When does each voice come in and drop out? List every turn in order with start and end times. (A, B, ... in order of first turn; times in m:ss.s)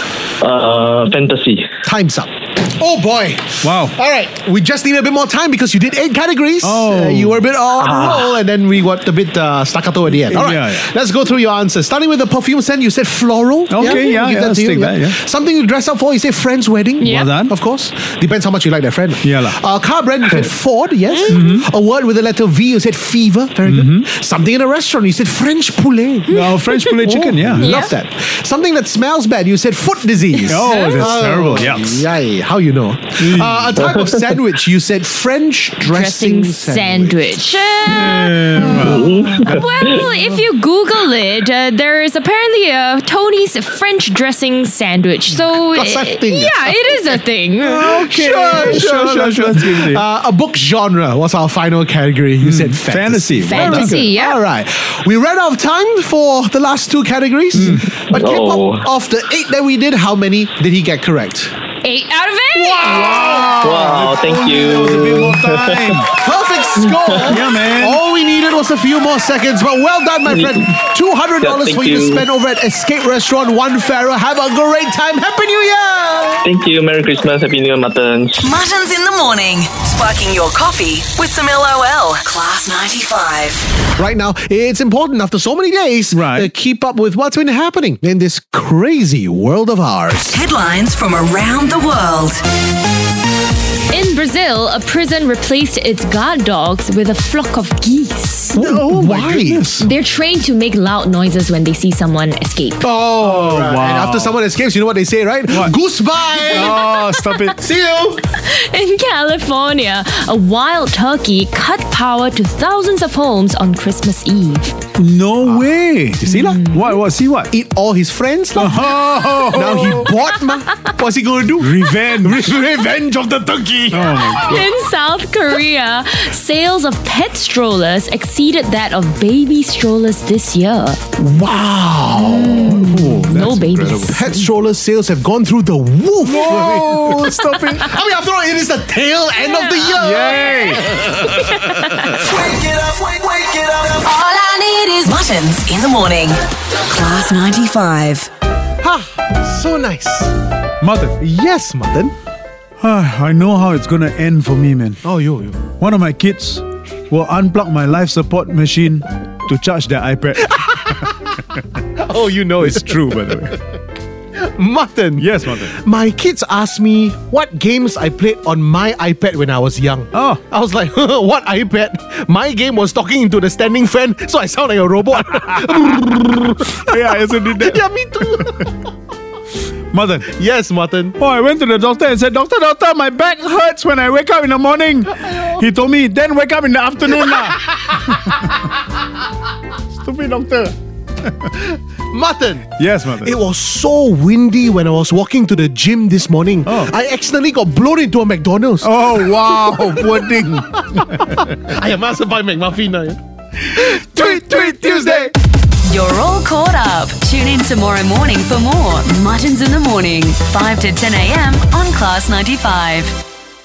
0:00.4-0:01.7 A
0:01.8-0:26.4 B
0:03.6-0:04.0 C
0:06.6-0:07.4 C
0:07.8-0:08.3 A
0:10.1-0:10.9 C
0:13.7-0:15.2 C
0:13.8-0:14.2 D
0:17.0-0:17.3 D
0:17.0-0:17.6 C
0:19.2-0:19.6 C
0:21.1-0:21.4 D
0:21.3-0:21.7 C
0:23.6-0:24.1 C
0:26.3-0:27.9 C
0:26.3-0:27.0 D
0:27.0-0:37.2 B
0:27.6-0:27.9 D
0:30.4-0:31.2 D
0:30.5-0:32.1 C
0:33.2-0:33.8 C
0:35.9-0:38.8 D
0:37.9-0:40.4 C
0:38.8-0:39.9 A
0:39.4-0:47.9 D
0:45.7-0:47.2 B
0:47.6-0:50.0 C
0:47.8-1:01.6 B
0:52.4-0:54.1 C
0:53.5-0:54.4 D
0:57.5-0:57.8 C
0:58.1-0:58.9 A
1:01.8-1:03.2 D
1:02.6-1:03.8 B
1:02.8-1:06.1 C
1:03.6-1:06.1 A
1:06.1-1:16.4 B
1:06.8-1:07.4 A
1:07.2-1:08.0 C
1:10.3-1:10.8 A
1:11.4-1:12.3 A
1:16.4-1:18.4 A
1:18.4-1:23.7 E
1:24.0-1:30.4 B
1:26.1-1:26.5 C
1:30.3-1:32.4 E
1:33.9-1:38.6 D
1:38.6-1:39.9 C
1:38.6-1:39.8 B
1:39.8-1:42.8 D
1:42.8-1:46.8 B
1:43.2-1:44.4 C
1:45.5-1:45.8 C
1:46.3-1:47.6 C
1:46.8-1:47.4 D
1:47.6-1:48.2 B
1:48.4-1:54.8 D
1:55.0-1:57.5 C
1:55.4-1:55.7 B
1:56.2-1:57.0 B
1:57.5-2:04.4 B
1:58.6-2:00.2 C
2:01.6-2:02.6 C
2:03.9-2:04.7 C
2:04.4-2:11.0 D
2:11.2-2:13.2 B
2:12.2-2:14.5 D
2:12.2-2:14.2 C
2:14.1-2:22.5 B
2:16.2-2:18.0 C
2:19.9-2:21.0 C
2:23.6-2:28.3 E
2:28.8-2:30.4 B
2:30.8-2:31.2 C
2:31.1-2:32.2 B
2:32.8-2:35.0 C
2:35.0-2:35.6 B
2:35.8-2:41.1 C
2:40.5-2:41.3 B
2:42.0-2:43.6 B
2:42.6-2:43.6 C
2:44.4-2:56.9 B
2:45.2-2:45.8 C
2:50.1-2:50.4 C
2:56.7-2:58.7 C
2:57.6-2:58.9 B
2:59.9-3:00.3 C
3:00.3-3:01.2 B
3:01.2-3:08.6 C
3:10.0-3:10.8 C
3:11.6-3:12.7 B
3:12.8-3:13.4 C
3:13.2-3:20.3 B
3:16.6-3:16.9 C
3:18.8-3:21.5 C
3:20.8-3:23.2 B
3:23.7-3:25.3 B
3:23.8-3:25.3 C
3:25.9-3:33.2 E